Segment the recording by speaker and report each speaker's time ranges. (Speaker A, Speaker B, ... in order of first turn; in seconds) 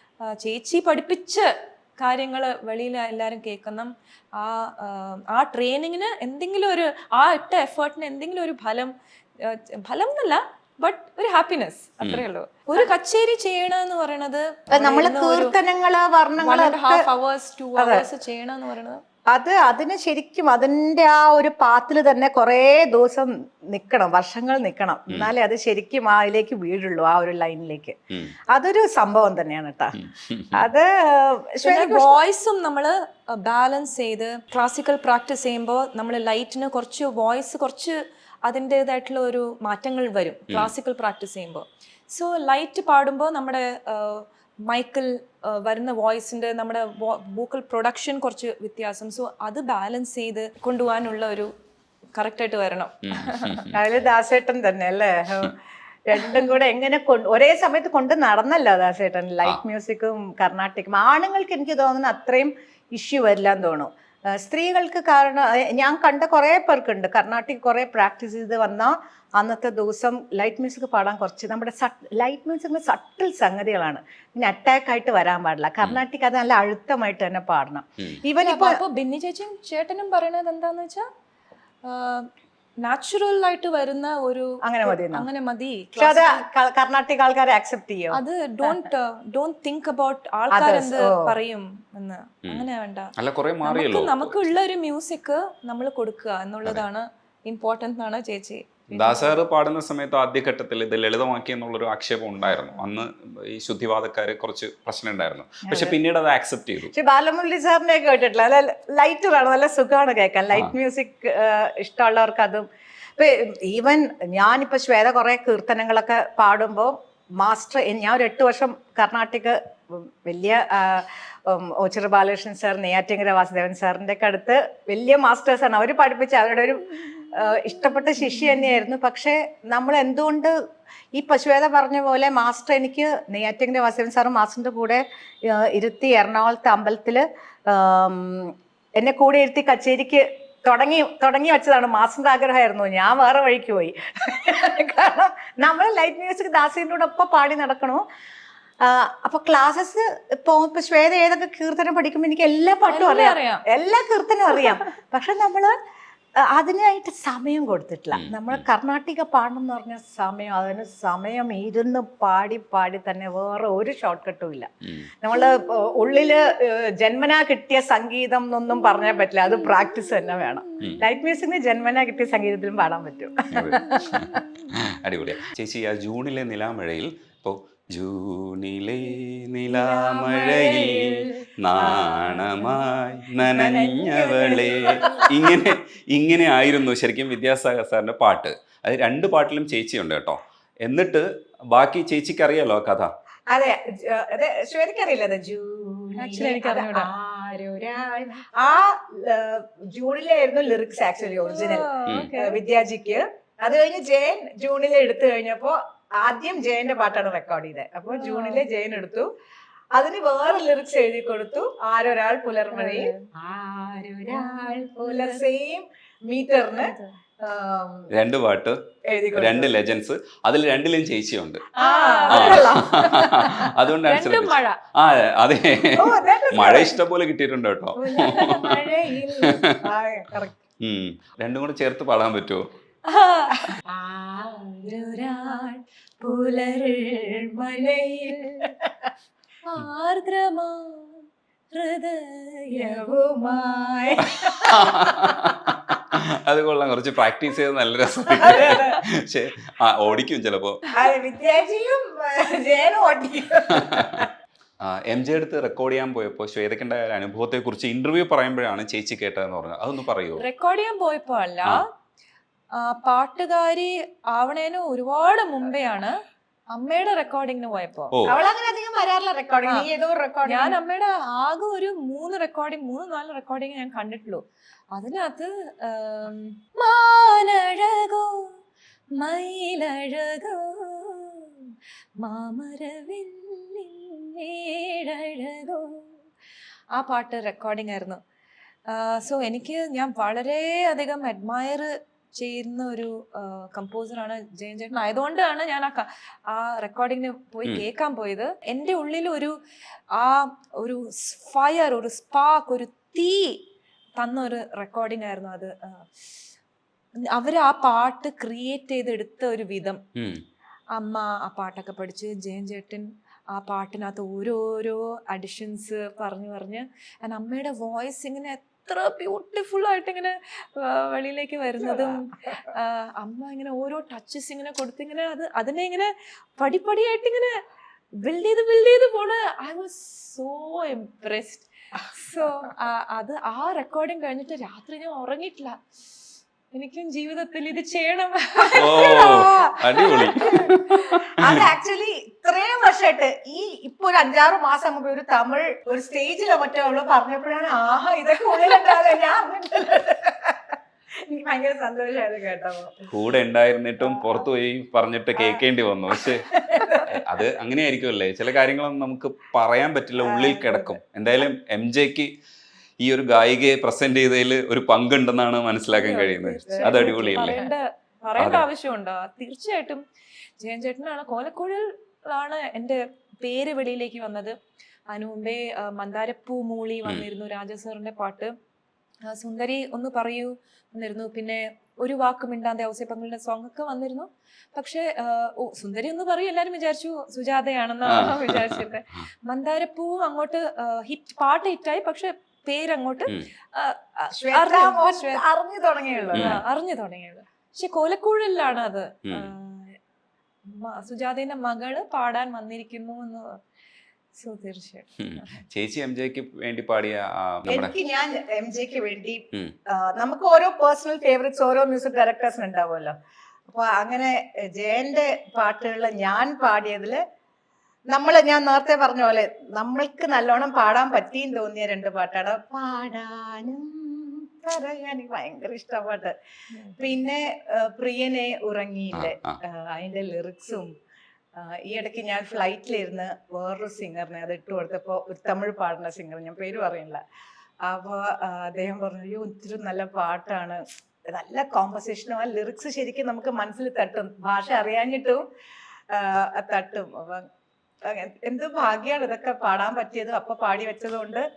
Speaker A: 0.3-15.5, 16.4-19.0, 31.6-51.5, 52.1-53.7, 78.4-81.0, 81.8-82.3, 82.8-86.4, 88.1-93.1, 93.6-99.4, 152.9-153.6, 196.2-197.1, 201.4-202.6, 208.1-208.6, 212.7-213.2, 214.4-215.4, 216.7-217.2, 221.8-222.7, 224.0-224.8, 233.1-238.7, 239.6-243.1, 260.4-261.9, 262.8-266.1, 266.7-268.1, 270.4-278.5, 279.2-286.1, 286.9-288.2, 288.9-299.5, 300.1-303.6, 304.2-306.1, 307.3-310.0, 310.9-327.5, 328.2-335.8, 336.7-340.9, 365.9-370.0, 370.6-374.5, 375.1-378.5, 379.3-395.4, 396.3-400.0, 400.7-403.6, 404.4-405.5, 426.7-427.0
Speaker B: 14.7-17.0, 17.8-18.0, 19.3-27.9, 28.5-29.9, 30.5-32.1, 53.7-55.5, 56.1-78.8, 84.6-85.3, 86.0-88.8, 90.5-91.3, 105.7-106.0, 106.9-112.7, 113.2-130.5, 131.1-148.0, 148.8-155.7, 156.4-164.7, 165.2-174.2, 179.7-182.8, 183.4-185.6, 193.5-209.3, 209.9-218.1, 219.1-219.7, 221.8-223.7, 225.9-227.0, 228.0-230.6, 233.9-234.2, 238.3-239.1, 242.7-245.1, 248.4-249.0, 250.9-254.3, 268.3-270.8, 321.9-322.2, 340.0-340.7, 341.3-350.7, 351.2-353.1, 354.0-354.4, 355.4-357.1, 360.2-361.0, 366.7-367.7, 394.3-396.6, 407.7-413.1, 413.7-417.2, 418.1-426.3, 427.0-430.9, 431.6-437.2, 437.8-445.4, 446.1-447.4, 448.1-451.4
Speaker C: 30.0-30.6, 53.0-53.8, 93.2-94.5, 98.9-106.9, 158.1-158.7, 164.8-165.1, 173.5-193.1, 218.1-218.8, 219.3-221.6, 222.3-228.8, 229.4-229.6, 230.8-232.6, 244.7-250.8, 253.8-254.2, 254.8-260.4, 338.7-341.6, 353.1-356.4, 357.0-362.3, 363.0-367.6, 368.4-368.6, 388.1-388.8, 405.2-407.9, 429.1-429.6